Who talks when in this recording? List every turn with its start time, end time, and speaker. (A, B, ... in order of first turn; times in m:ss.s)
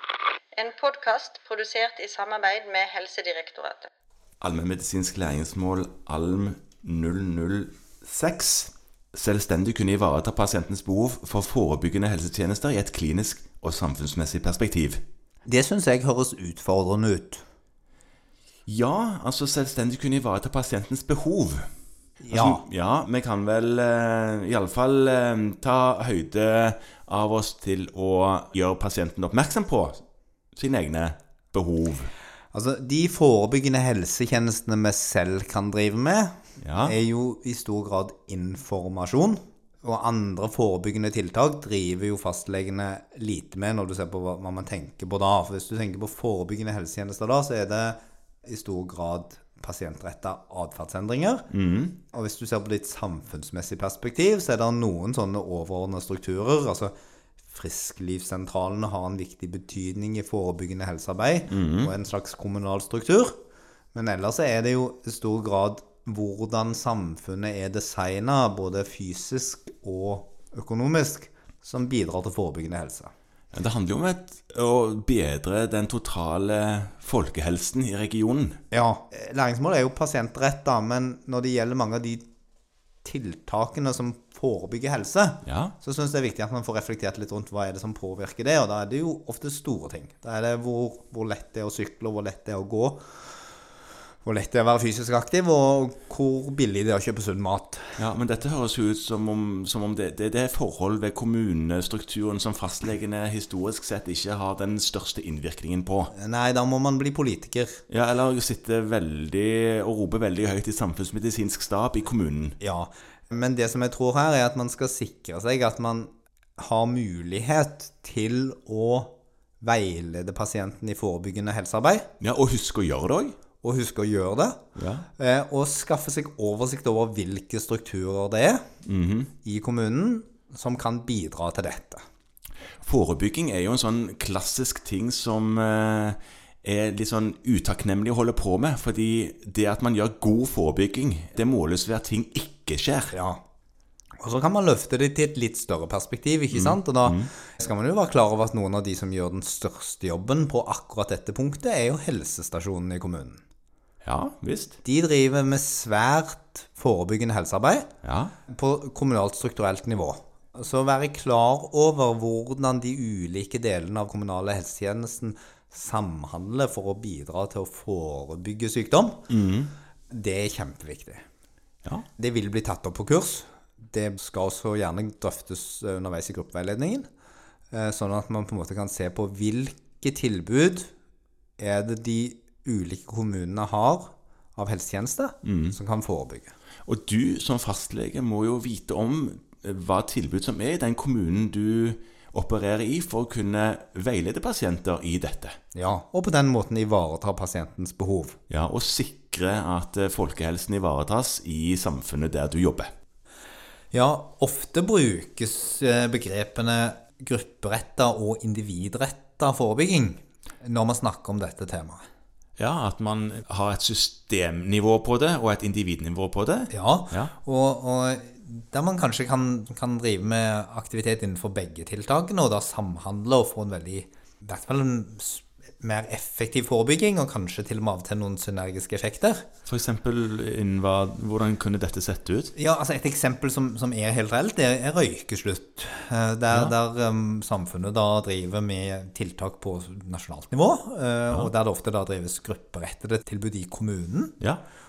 0:00.5-0:03.9 A
0:04.4-0:15.0 B
0:15.4-0:17.4 C
0:18.7-0:21.6 B
0:22.2-0:22.6 C
0:22.3-0:30.0 B
0:30.5-0:32.1 B
0:32.5-0:51.4 C
0:36.6-0:37.0 B
0:51.5-0:52.0 B
0:52.1-0:56.9 C
0:57.4-1:03.4 C
1:01.5-1:01.9 B
1:03.9-1:13.1 C
1:13.5-1:18.6 B
1:18.7-1:22.2 C
1:23.0-1:33.1 C
1:25.4-1:25.7 B
1:34.2-1:38.0 C
1:38.0-1:46.1 B
1:46.1-1:47.8 C
1:47.9-1:52.6 B
1:52.6-2:02.1 C
2:02.2-2:03.3 B
2:03.6-2:04.6 C
2:04.8-2:05.1 B
2:05.2-2:08.6 C
2:08.8-2:09.3 B
2:09.4-2:12.0 C
2:12.8-2:23.1 B
2:23.1-2:23.4 C
2:24.2-2:33.4 C
2:26.5-2:27.3 B
2:34.0-2:34.8 B
2:34.8-2:37.9 C
2:38.0-2:38.3 B
2:38.5-2:49.2 C
2:49.3-2:49.7 B
2:50.1-2:51.2 C
2:52.2-2:57.1 C
2:57.7-3:00.9 C
3:01.6-3:06.5 C
3:05.4-3:05.7 B
3:06.8-3:15.6 B
3:15.7-3:18.4 C
3:18.5-3:22.9 B
3:23.9-3:32.0 C
3:32.6-3:37.3 B
3:36.7-3:49.5 C
3:49.6-3:52.5 B
3:52.5-4:04.4 C